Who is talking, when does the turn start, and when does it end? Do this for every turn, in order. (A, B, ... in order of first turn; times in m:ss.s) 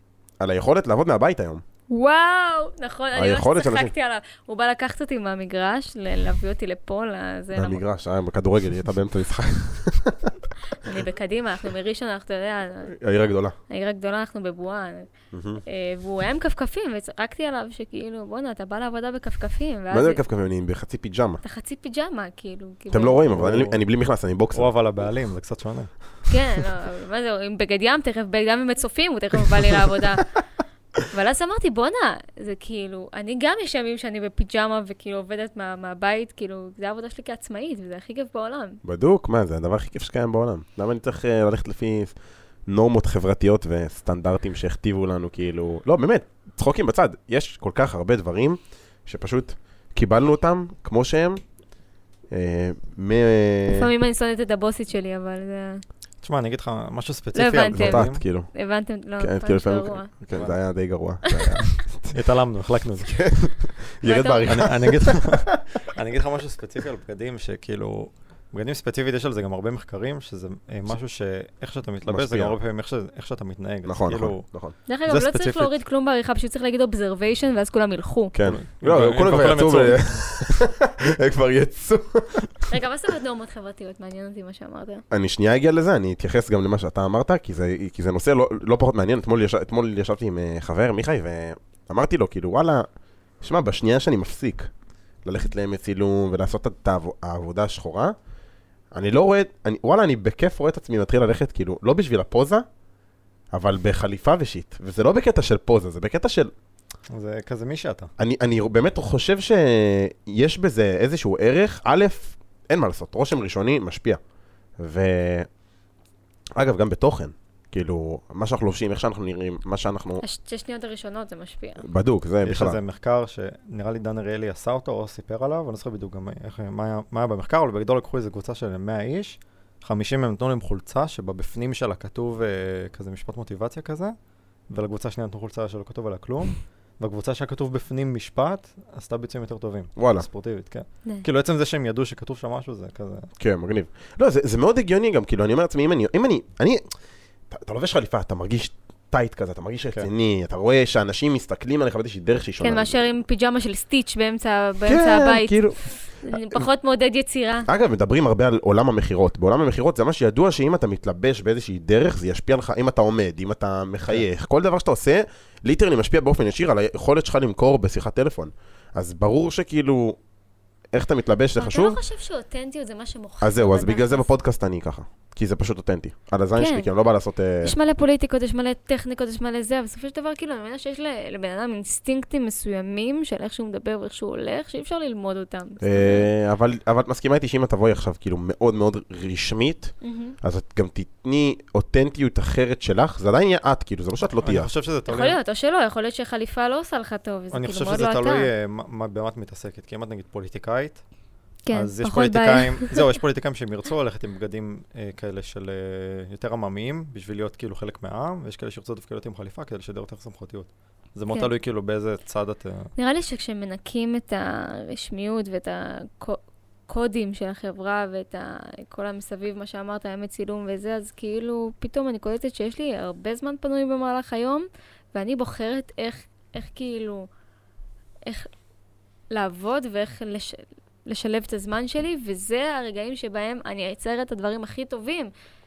0:00.4-0:01.6 A
0:01.9-0:07.8 B
0:03.1-0:03.9 A
0:07.5-0:10.9 A
0:10.8-0:12.9 B
0:12.9-0:13.6 A
0:13.7-0:15.1 B
0:15.3-0:15.6 A
0:15.6-0:20.2 B
0:19.9-0:21.4 A
0:21.4-0:23.2 B
0:22.9-0:24.7 A
0:23.3-0:23.8 C
0:24.5-0:25.9 C
0:26.3-0:30.3 B
0:31.1-0:38.8 B
0:38.8-0:42.1 A
0:42.7-0:51.4 A
0:52.3-0:53.9 A
0:53.7-0:55.8 B
0:56.2-0:58.2 C
0:57.3-1:00.1 B
0:57.7-0:58.5 A
0:59.2-1:02.2 A
1:00.3-1:00.6 C
1:01.3-1:01.7 B
1:02.1-1:03.2 C
1:03.0-1:05.6 A
1:04.0-1:04.5 B
1:04.4-1:14.5 C
1:12.0-1:12.6 A
1:13.8-1:14.8 A
1:14.9-1:18.3 B
1:15.1-1:15.7 C
1:18.3-1:22.7 A
1:18.5-1:20.5 C
1:22.7-1:25.0 B
1:25.1-1:32.9 A
1:33.4-1:34.7 A
1:35.2-1:38.1 A
1:38.9-1:42.6 A
1:43.5-1:46.5 A
1:47.1-1:48.1 C
1:48.2-1:54.2 A
1:54.8-1:55.5 A
1:56.6-2:00.2 A
2:00.2-2:01.8 B
2:01.8-2:02.8 A
2:02.4-2:14.1 C
2:14.7-2:23.3 C
2:20.0-2:20.3 A
2:23.4-2:26.8 A
2:27.5-2:33.0 A
2:32.6-2:37.7 B
2:34.8-2:36.6 A
2:37.7-2:50.2 A
2:50.9-2:52.0 A
2:51.6-2:54.3 B
2:53.4-2:57.7 A
2:56.6-2:56.9 B
2:57.6-3:06.3 B
3:05.8-3:14.7 A
3:10.0-3:10.4 B
3:14.2-3:15.4 C
3:15.1-3:18.5 B
3:17.5-3:21.0 C
3:21.6-3:23.0 B
3:21.7-3:32.9 C
3:33.0-3:47.3 B
3:49.3-3:55.3 B